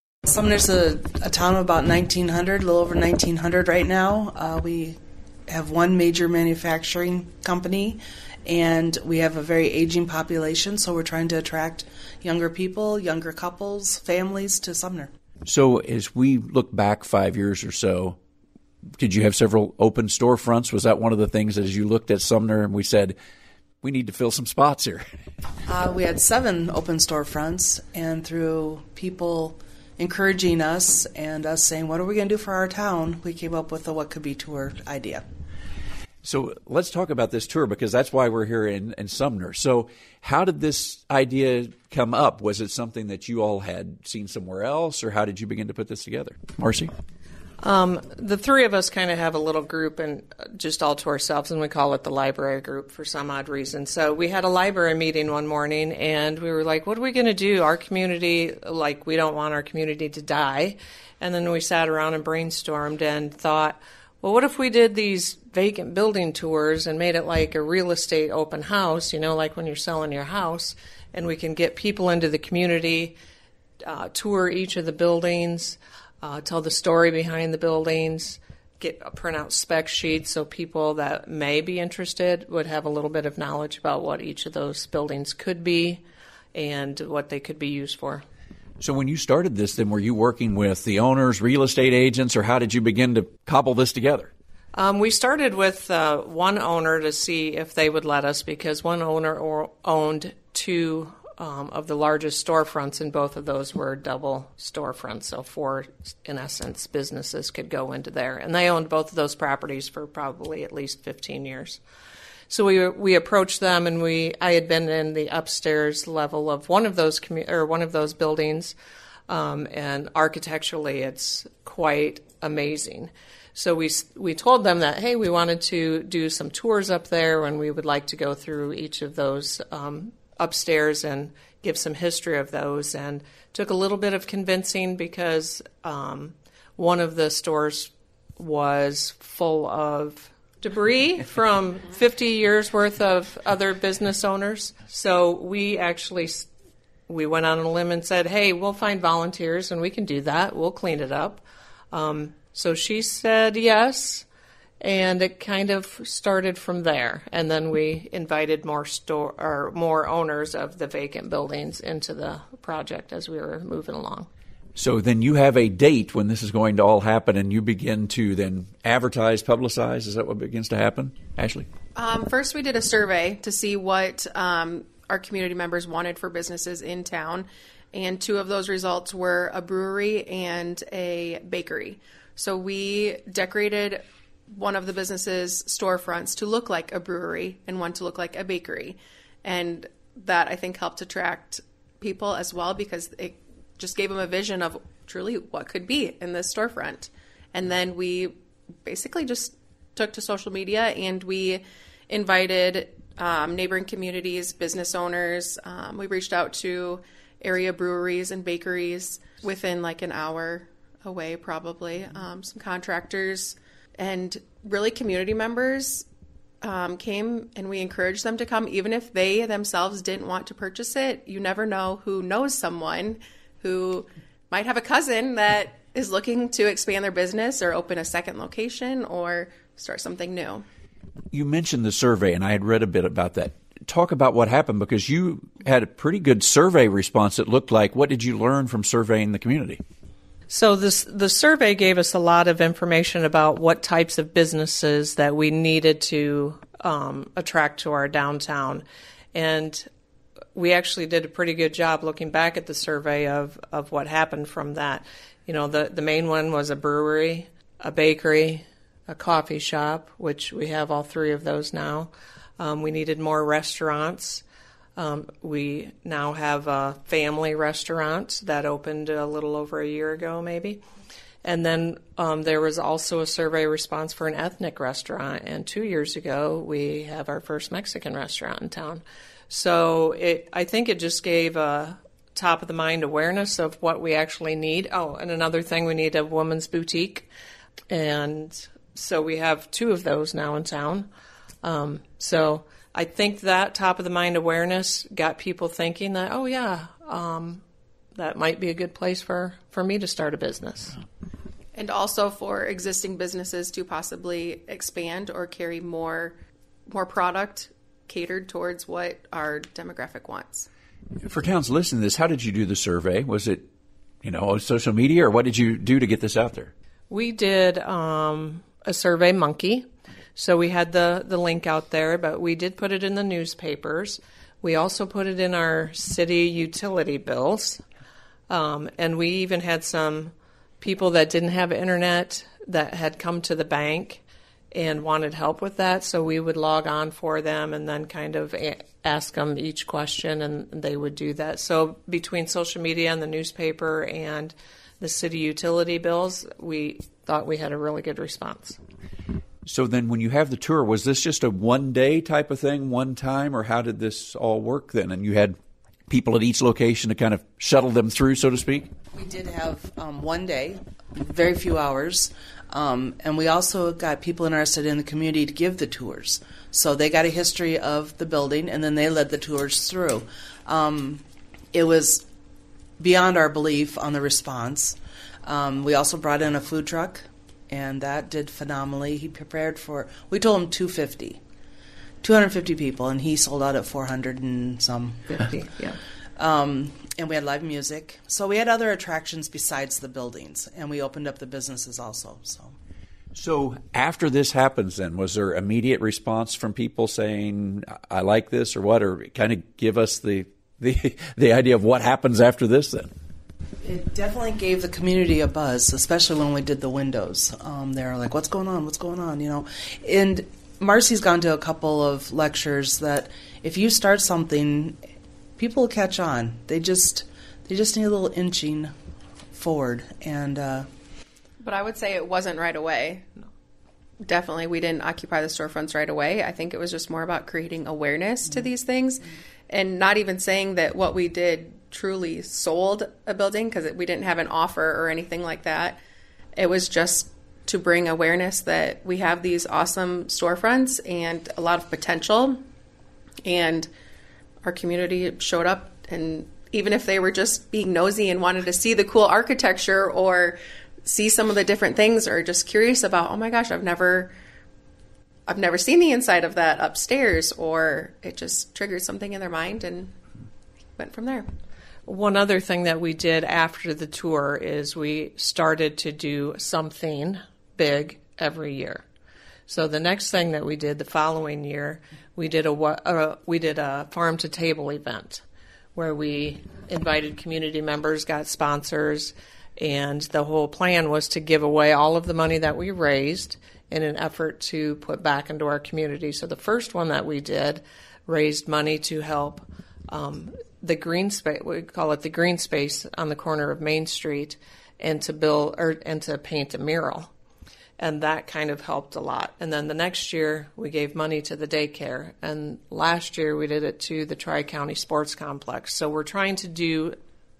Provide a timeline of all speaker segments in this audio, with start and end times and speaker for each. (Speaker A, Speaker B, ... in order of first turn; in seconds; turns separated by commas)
Speaker A: 0.2-15.1, Speaker B: 15.4-18.2, Speaker B: 19.0-23.1, Speaker B: 23.8-25.0, Speaker A: 25.6-35.2, Speaker B: 36.2-46.9, Speaker C: 47.6-73.2, Speaker C: 73.8-86.0, Speaker C: 86.5-88.2, Speaker B: 88.8-94.3, Speaker C: 94.7-111.8, Speaker C: 112.5-118.7, Speaker C: 119.3-146.5, Speaker C: 147.1-154.2, Speaker C: 154.8-164.3, Speaker B: 164.8-171.7, Speaker D: 171.9-216.0, Speaker D: 216.6-230.7, Speaker B: 231.3-239.8, Speaker C: 240.5-249.9, Speaker C: 250.5-264.4, Speaker C: 264.9-270.8, Speaker C: 271.4-287.3, Speaker C: 287.9-291.1, Speaker C: 291.6-297.6, Speaker C: 298.1-301.0, Speaker D: 301.7-306.4, Speaker D: 306.9-310.7, Speaker B: 311.2-313.7, Speaker B: 314.2-316.7, Speaker C: 317.1-327.8, Speaker C: 328.5-348.8, Speaker B: 349.6-355.6, Speaker B: 356.1-358.9, Speaker A: 359.1-372.2, Speaker A: 373.0-381.4, Speaker A: 382.2-385.5, Speaker C: 385.3-386.0, Speaker A: 386.4-392.7, Speaker B: 393.3-403.1, Speaker A: 403.8-415.0, Speaker A: 415.6-418.9, Speaker A: 419.5-420.9, Speaker D: 421.6-423.3, Speaker D: 424.2-436.0, Speaker D: 436.6-442.6, Speaker D: 443.4-443.9, Speaker D: 444.6-454.3, Speaker D: 455.5-460.1, Speaker D: 461.0-461.5, Speaker C: 462.1-469.0, Speaker C: 469.7-475.4, Speaker C: 475.9-497.3, Speaker C: 498.0-507.1